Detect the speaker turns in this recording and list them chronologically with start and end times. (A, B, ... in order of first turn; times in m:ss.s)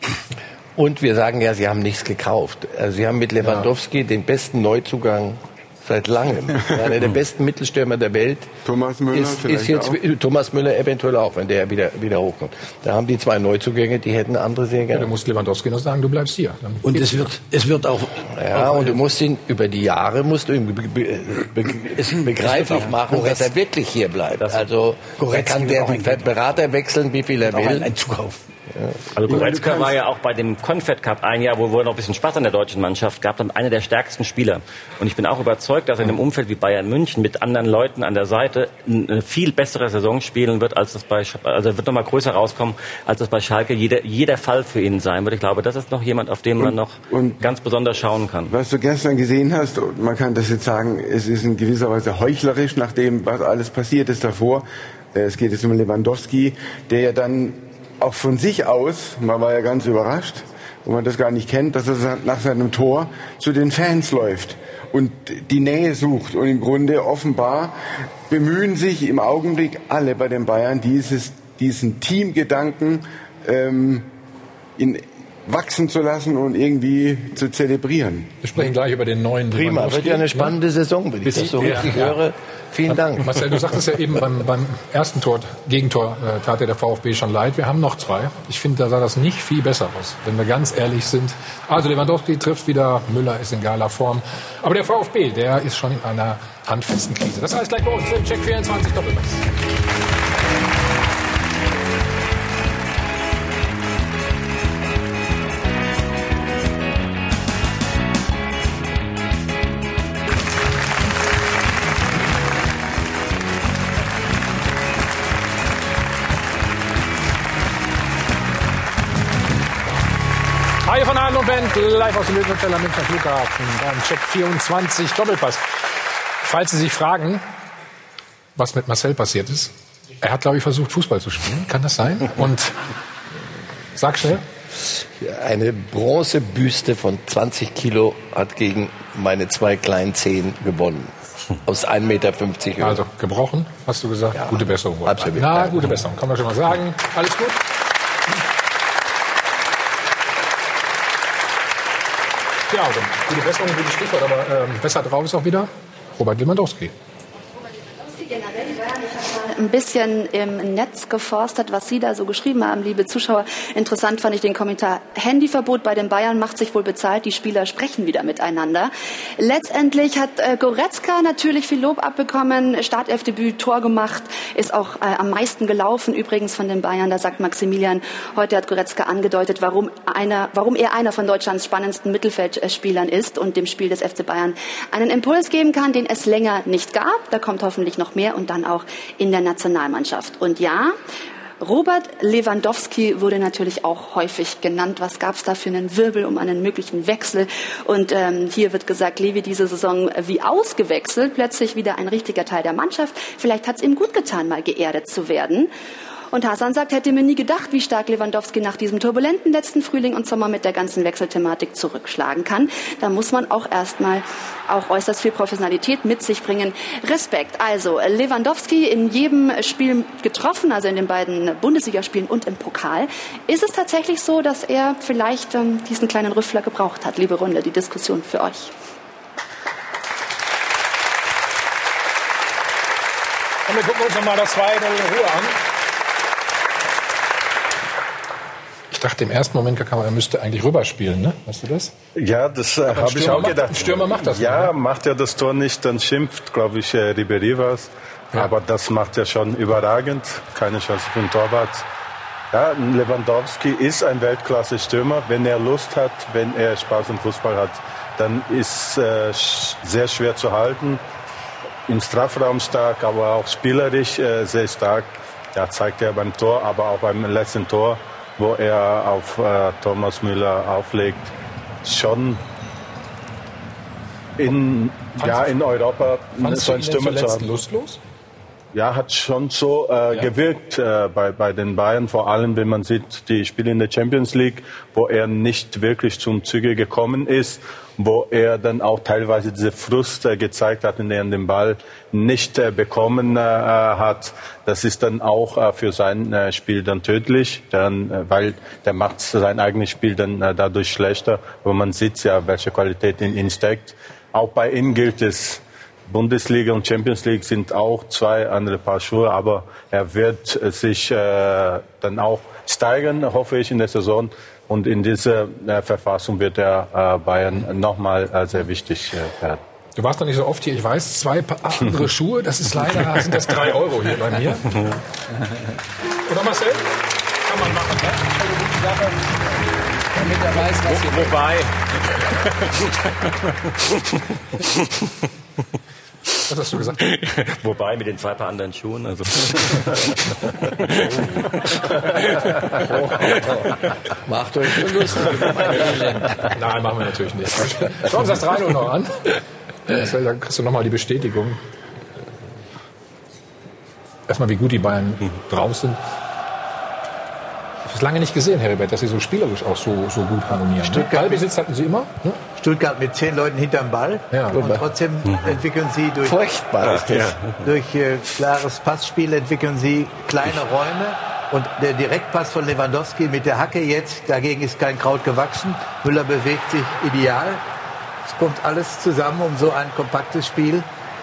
0:00.8-0:08.5 A
0:08.6-0:10.0 B
0:09.1-0:15.1 A
0:14.9-0:17.3 C
0:16.8-0:19.0 D
0:18.3-0:27.9 A
0:21.9-0:23.5 D
0:25.2-0:26.2 D
0:27.4-0:28.4 D
0:29.2-0:48.5 E
0:29.3-0:30.0 B
0:46.6-0:47.4 B
0:48.5-1:14.1 B
1:14.8-1:18.4 B
1:18.4-1:20.6 C
1:19.5-1:23.4 A
1:21.2-1:22.2 C
1:22.9-1:39.4 C
2:00.8-2:05.6 C
2:06.4-2:07.4 C
2:08.6-2:12.7 C
2:13.9-2:14.4 C
2:14.8-2:21.1 A
2:21.6-2:23.0 A
2:22.8-2:27.6 C
2:24.3-2:25.9 A
2:32.7-2:36.9 C
2:37.9-3:11.0 F
3:11.6-3:25.7 F
3:26.3-3:48.7 F
3:53.7-3:55.6 C
3:58.9-4:01.9 C
4:02.2-4:11.9 G
4:02.9-4:04.7 C
4:12.5-4:21.0 G
4:21.9-4:31.3 G
4:31.8-4:32.4 G
4:34.4-4:37.4 G
4:35.2-4:35.5 C
4:36.4-4:38.0 C
4:38.7-5:19.6 G
5:20.0-5:24.9 C
5:26.3-5:26.9 C
5:27.4-5:29.2 C
5:30.5-5:31.3 C
5:30.9-5:31.6 E
5:36.5-5:37.0 C
5:37.2-5:40.1 E
5:43.2-5:43.7 A
5:44.2-5:46.2 A
5:46.4-5:49.2 C
5:49.9-5:51.6 C
5:54.3-5:56.0 C
5:57.9-6:02.4 C
6:00.5-6:01.5 H
6:02.6-6:06.4 H
6:04.3-6:04.7 C
6:04.5-6:04.8 A
6:06.2-6:07.4 A
6:07.6-6:17.6 H
6:18.2-6:20.9 H